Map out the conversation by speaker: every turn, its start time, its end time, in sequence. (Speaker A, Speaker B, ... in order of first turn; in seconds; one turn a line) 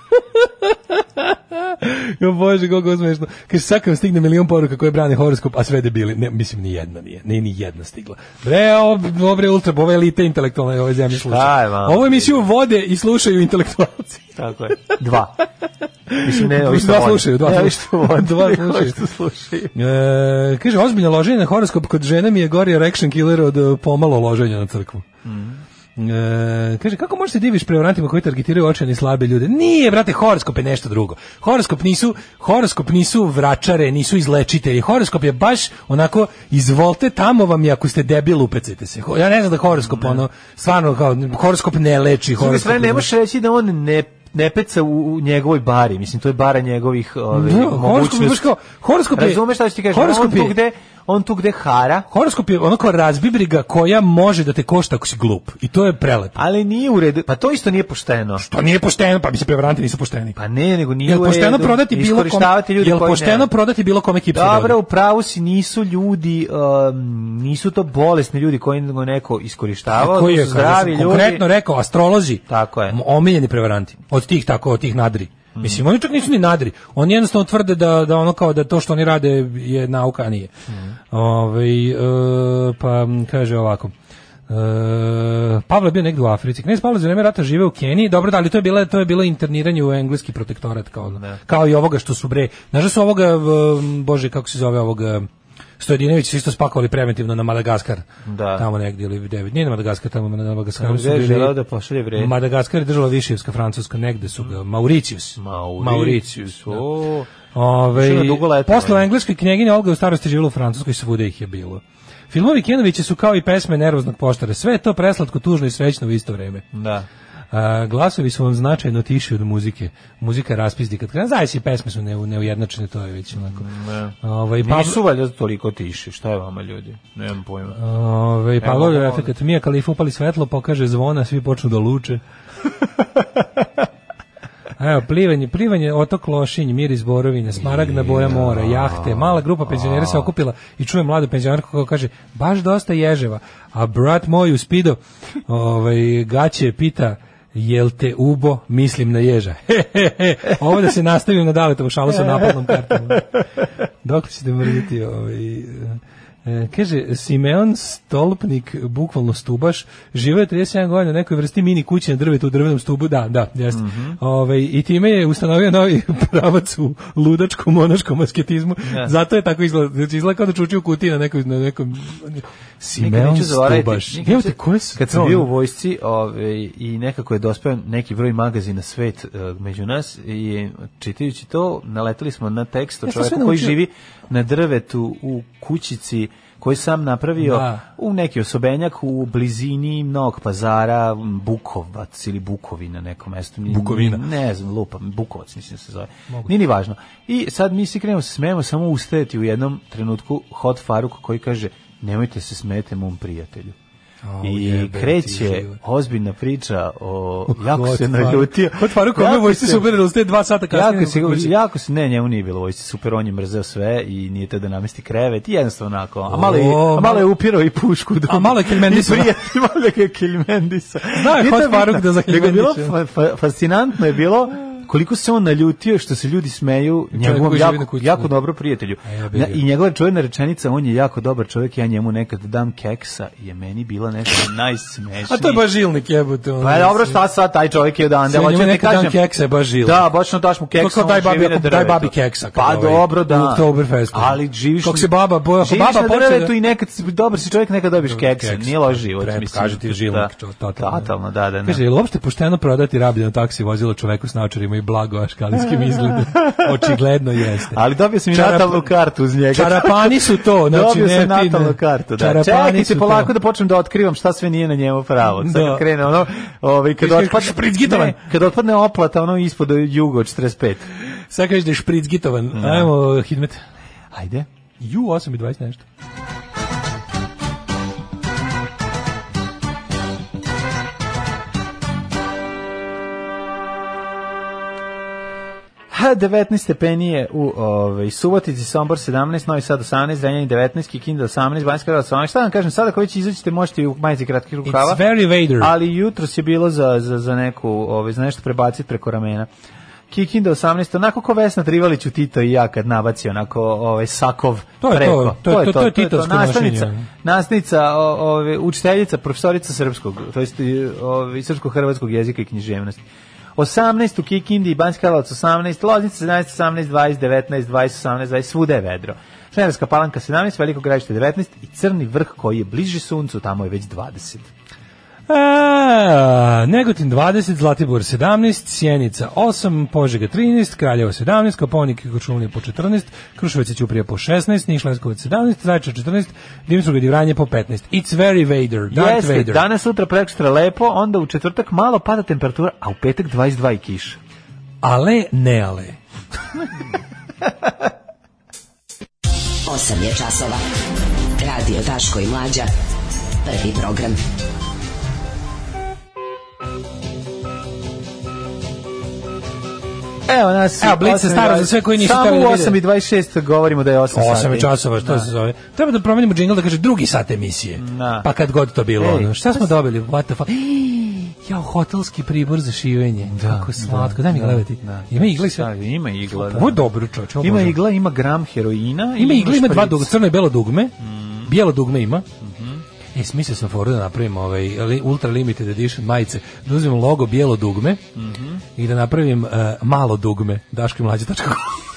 Speaker A: 0.3-14.3
Speaker B: 11.1-12.4
Speaker B: 14.3-15.4
Speaker A: 16.1-19.0
Speaker B: 16.2-19.7
Speaker A: 19.7-25.0
Speaker B: 25.2-25.6
Speaker A: 26.0-43.1
Speaker B: 39.8-40.2
Speaker B: 42.3-48.5
Speaker A: 47.3-50.5
Speaker B: 49.1-52.1
Speaker A: 52.1-56.4
Speaker B: 56.4-58.4
Speaker A: 58.4-60.4
Speaker B: 60.4-63.5
Speaker A: 61.0-64.8
Speaker B: 64.3-71.5
Speaker A: 69.9-80.5
Speaker B: 72.5-73.0
Speaker B: 75.5-75.8
Speaker A: 81.1-83.9
Speaker A: 84.5-95.3
Speaker B: 91.0-91.4
Speaker A: 95.8-101.5
Speaker B: 98.2-98.7
Speaker B: 100.8-102.3
Speaker A: 102.2-106.8
Speaker B: 105.4-107.3
Speaker A: 107.5-116.6
Speaker B: 107.9-109.1
Speaker B: 116.7-117.1
Speaker A: 117.5-123.7
Speaker B: 123.3-127.8
Speaker A: 124.2-125.0
Speaker A: 127.8-132.2
Speaker B: 128.6-129.3
Speaker A: 134.8-153.3
Speaker B: 137.6-140.3
Speaker B: 152.2-153.2
Speaker A: 154.0-175.5
Speaker B: 163.7-164.2
Speaker B: 168.8-169.1
Speaker B: 172.9-203.8
Speaker A: 183.1-183.8
Speaker A: 187.4-187.8
Speaker A: 193.7-194.2
Speaker A: 204.2-205.8
Speaker B: 204.4-209.9
Speaker A: 207.5-211.5
Speaker B: 210.7-235.7
Speaker A: 216.3-217.3
Speaker A: 218.3-219.3
Speaker A: 221.1-222.9
Speaker A: 227.1-228.3
Speaker A: 229.0-229.6
Speaker A: 235.2-237.2
Speaker B: 236.6-239.2
Speaker A: 238.3-240.1
Speaker B: 239.8-251.8
Speaker A: 240.8-246.5
Speaker A: 248.1-251.1
Speaker A: 251.6-257.8
Speaker B: 256.2-256.8
Speaker B: 257.7-270.9
Speaker A: 258.3-258.9
Speaker A: 259.5-263.3
Speaker A: 265.4-265.9
Speaker A: 267.0-268.2
Speaker A: 271.3-273.6
Speaker B: 272.5-272.9
Speaker B: 274.1-274.5
Speaker A: 274.8-275.8
Speaker B: 285.9-295.0
Speaker A: 294.6-295.7
Speaker B: 295.6-299.5
Speaker B: 300.1-313.0
Speaker A: 304.8-307.1
Speaker B: 313.6-324.5
Speaker A: 325.3-339.6
Speaker B: 338.9-344.2
Speaker A: 344.8-346.0
Speaker C: 349.6-350.6
Speaker C: 351.4-352.7
Speaker C: 353.4-354.2
Speaker B: 360.3-365.3
Speaker A: 360.8-362.8
Speaker A: 364.1-375.7
Speaker B: 367.8-368.3
Speaker B: 369.0-369.7
Speaker B: 373.2-376.9
Speaker A: 376.3-377.8
Speaker B: 377.4-380.1
Speaker A: 379.2-380.9
Speaker B: 381.0-381.5
Speaker A: 381.4-382.3
Speaker B: 382.4-382.8
Speaker A: 383.1-388.0
Speaker B: 388.1-388.6
Speaker A: 388.8-391.8